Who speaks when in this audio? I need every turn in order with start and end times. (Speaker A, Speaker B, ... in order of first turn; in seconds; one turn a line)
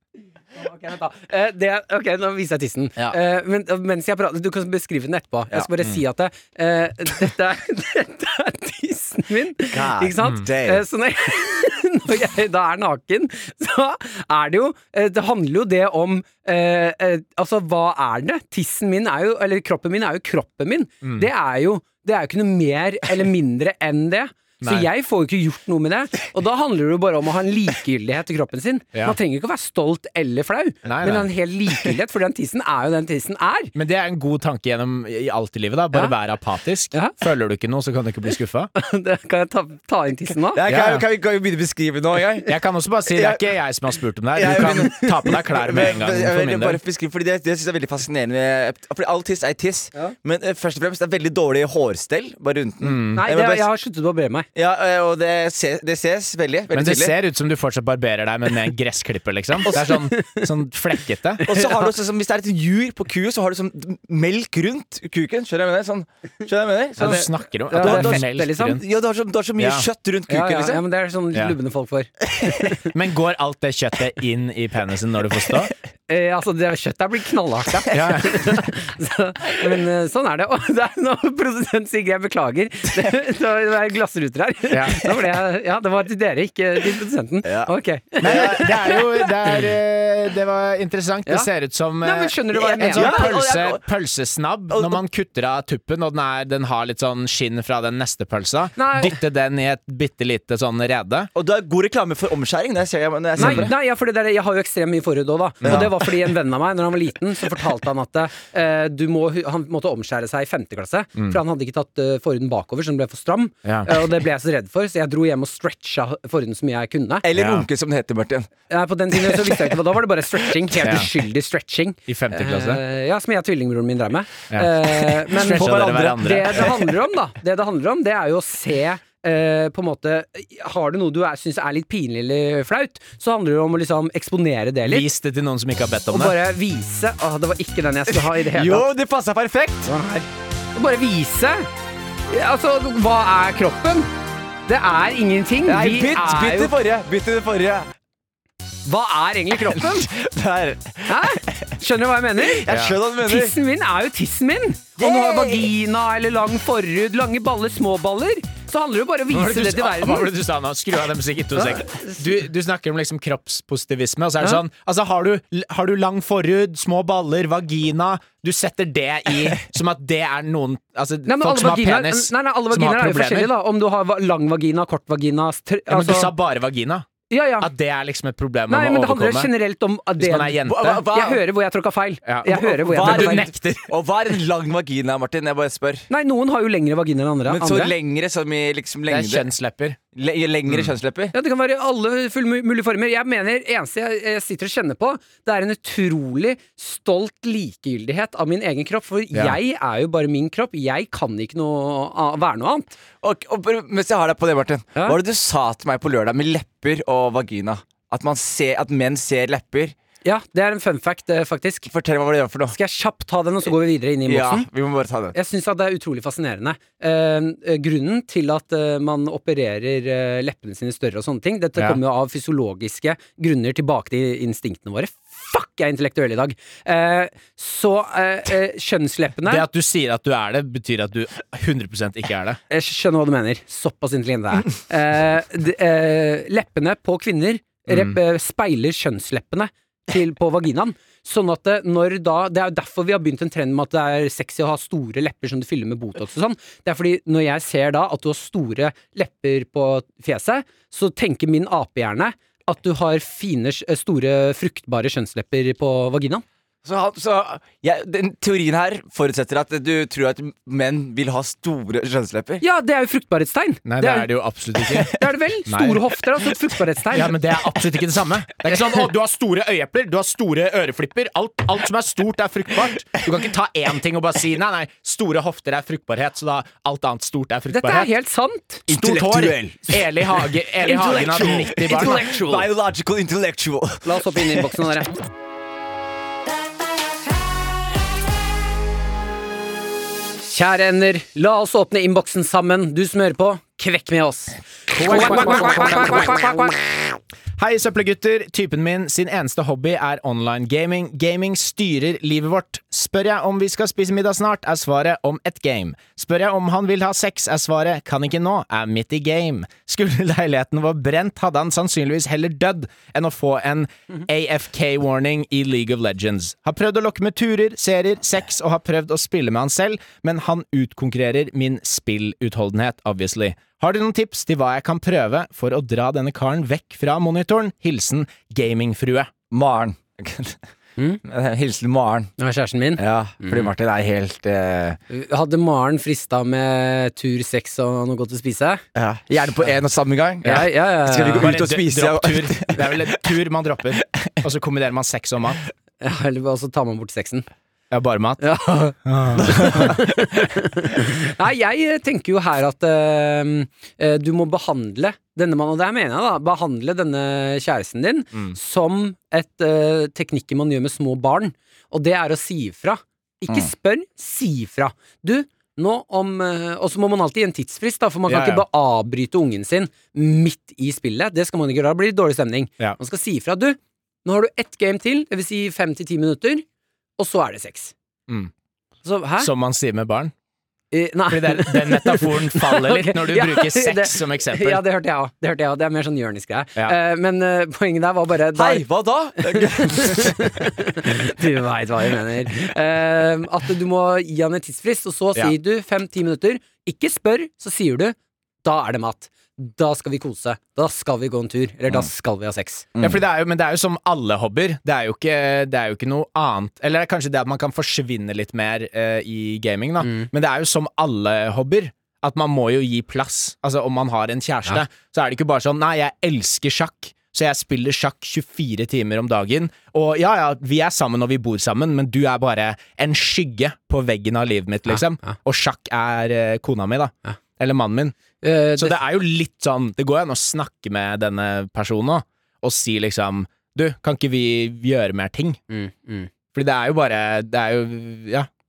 Speaker A: 0.6-33.7
Speaker B: 9.7-10.8
Speaker C: 21.0-21.3
Speaker C: 24.6-24.9
Speaker C: 30.8-31.3
Speaker C: 33.7-38.7
Speaker A: 38.7-40.6
Speaker B: 40.5-42.5
Speaker C: 40.7-41.0
Speaker C: 42.5-46.8
Speaker B: 43.1-43.5
Speaker B: 44.3-53.7
Speaker C: 52.8-53.2
Speaker A: 53.1-54.5
Speaker B: 54.5-57.1
Speaker C: 56.7-61.4
Speaker A: 59.7-60.5
Speaker A: 61.4-61.9
Speaker B: 61.4-70.8
Speaker C: 67.0-68.8
Speaker A: 67.0-68.8
Speaker C: 69.6-69.9
Speaker A: 70.3-72.8
Speaker C: 72.8-75.7
Speaker A: 76.1-89.3
Speaker C: 77.9-78.7
Speaker C: 84.7-85.0
Speaker B: 87.4-88.7
Speaker C: 88.2-101.3
Speaker A: 92.0-93.3
Speaker B: 92.5-93.8
Speaker B: 94.7-95.0
Speaker A: 98.8-99.2
Speaker B: 101.3-103.7
Speaker A: 103.4-117.2
Speaker C: 103.4-103.7
Speaker C: 105.6-105.9
Speaker B: 105.6-105.9
Speaker C: 113.6-113.9
Speaker B: 117.2-118.5
Speaker C: 117.3-117.7
Speaker A: 118.7-135.1
Speaker B: 119.1-119.7
Speaker C: 120.8-121.1
Speaker C: 122.1-122.8
Speaker C: 124.5-126.7
Speaker B: 125.4-126.7
Speaker C: 134.8-136.3
Speaker A: 136.1-138.9
Speaker B: 138.4-139.9
Speaker A: 139.8-141.7
Speaker A: 142.3-144.1
Speaker A: 144.7-146.7
Speaker B: 145.7-147.9
Speaker A: 148.8-150.1
Speaker B: 149.7-151.7
Speaker A: 151.1-152.7
Speaker B: 152.4-153.6
Speaker C: 152.7-153.0
Speaker A: 153.2-160.3
Speaker B: 155.0-155.7
Speaker C: 159.3-173.5
Speaker A: 161.5-162.3
Speaker A: 171.2-176.3
Speaker C: 175.9-177.1
Speaker A: 177.3-177.7
Speaker C: 177.6-179.5
Speaker A: 178.7-183.4
Speaker C: 180.2-181.1
Speaker B: 180.7-181.4
Speaker C: 182.2-183.9
Speaker B: 182.5-186.1
Speaker A: 186.1-187.9
Speaker B: 187.5-189.5
Speaker C: 189.1-190.0
Speaker B: 190.1-191.3
Speaker C: 190.7-190.9
Speaker A: 191.3-202.9
Speaker B: 203.2-209.9
Speaker A: 210.2-211.9
Speaker B: 211.9-212.8
Speaker A: 212.7-214.7
Speaker B: 214.2-215.3
Speaker A: 215.3-229.7
Speaker C: 229.4-232.6
Speaker A: 232.7-256.4
Speaker C: 237.9-238.2
Speaker B: 256.8-262.6
Speaker A: 262.6-264.3
Speaker C: 263.8-265.1
Speaker A: 265.0-267.4
Speaker C: 265.6-266.0
Speaker C: 267.1-278.1
Speaker A: 277.7-278.8
Speaker C: 278.9-282.3
Speaker B: 278.9-284.8
Speaker A: 281.7-282.7
Speaker A: 284.0-285.2
Speaker A: 290.4-296.9
Speaker C: 294.9-296.6
Speaker C: 297.6-329.3
Speaker B: 329.5-330.6
Speaker B: 331.2-332.3
Speaker A: 332.4-333.7
Speaker B: 333.0-335.0
Speaker A: 335.1-338.8
Speaker B: 338.9-343.2
Speaker C: 340.4-340.7
Speaker A: 340.4-341.5
Speaker C: 341.3-345.6
Speaker B: 344.0-344.3
Speaker A: 346.0-347.4
Speaker C: 347.9-348.4
Speaker A: 348.4-376.6
Speaker C: 349.0-349.9
Speaker B: 349.4-350.0
Speaker C: 368.3-368.6
Speaker A: 377.2-377.9
Speaker A: 379.0-379.5
Speaker C: 379.4-380.3
Speaker A: 380.9-388.8
Speaker C: 381.3-384.8
Speaker B: 388.5-390.4
Speaker A: 389.4-402.9
Speaker B: 402.9-403.2
Speaker C: 403.0-428.1
Speaker A: 410.0-410.3
Speaker A: 424.9-425.4
Speaker A: 428.4-429.0
Speaker C: 428.8-435.6
Speaker A: 435.7-436.3
Speaker C: 436.5-438.5